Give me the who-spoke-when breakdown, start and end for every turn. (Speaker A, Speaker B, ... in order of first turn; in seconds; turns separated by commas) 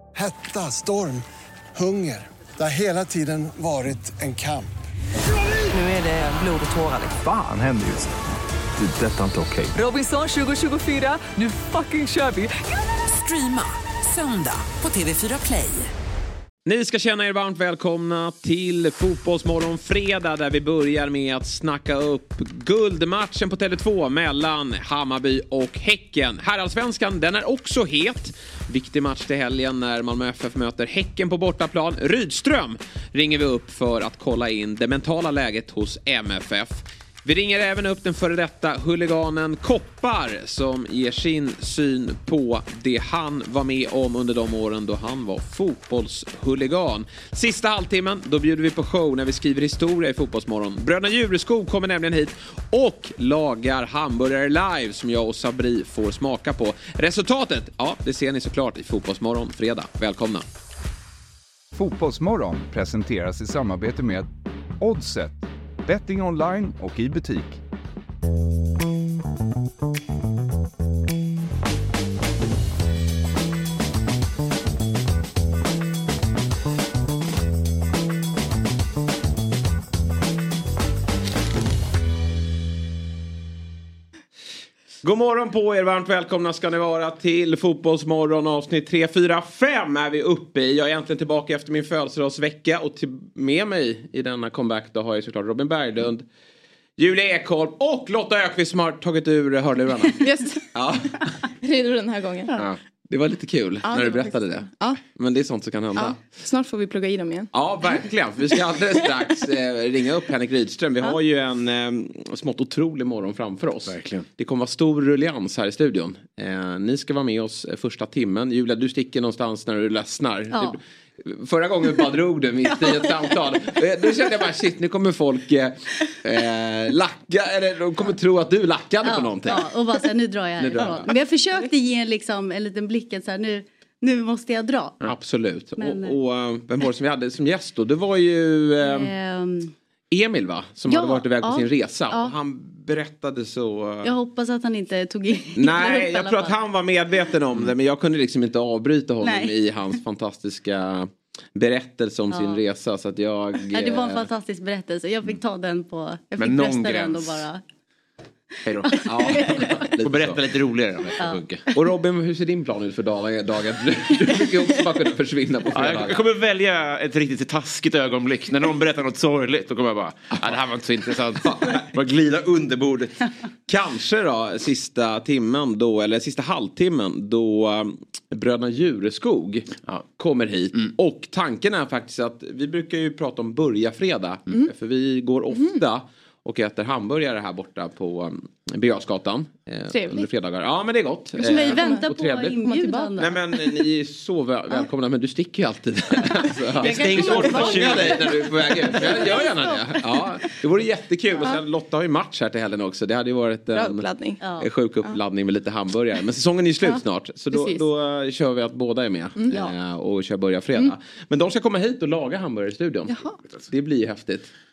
Speaker A: 0.1-4.7, Speaker B: 5.7-7.1, Speaker C: 7.1-8.1, Speaker C: 8.8-9.8, Speaker B: 9.7-15.9, Speaker D: 16.6-60.4, Speaker C: 61.8-64.2, Speaker C: 64.8-65.3, Speaker C: 65.9-67.5, Speaker D: 85.0-96.2, Speaker D: 97.0-100.2, Speaker E: 100.2-100.6, Speaker D: 100.7-101.2, Speaker E: 101.6-102.5, Speaker D: 103.1-106.2, Speaker E: 103.8-105.0, Speaker E: 105.9-107.5, Speaker D: 107.5-129.7, Speaker F: 113.9-114.2, Speaker G: 129.0-135.0, Speaker D: 130.6-131.1, Speaker D: 135.0-139.1, Speaker G: 135.8-136.2, Speaker G: 138.8-139.7, Speaker D: 140.1-144.1, Speaker G: 140.9-142.3, Speaker G: 144.0-146.6, Speaker D: 145.5-154.2, Speaker G: 149.2-149.5, Speaker G: 152.3-152.6, Speaker G: 153.7-157.6, Speaker F: 156.4-157.4, Speaker F: 158.7-159.4, Speaker G: 158.8-159.9, Speaker D: 159.0-160.4, Speaker F: 160.0-161.6, Speaker D: 161.7-166.2, Speaker F: 165.7-173.3, Speaker D: 173.7-204.1, Speaker E: 189.9-190.3, Speaker E: 191.4-193.4, Speaker G: 191.4-193.4, Speaker F: 196.8-198.1, Speaker E: 196.9-198.1, Speaker G: 197.0-198.1, Speaker G: 198.8-199.7, Speaker E: 199.0-199.8, Speaker E: 203.7-204.5, Speaker G: 204.4-204.7, Speaker D: 204.6-214.5, Speaker E: 206.8-207.9, Speaker E: 209.3-209.7, Speaker E: 213.1-213.4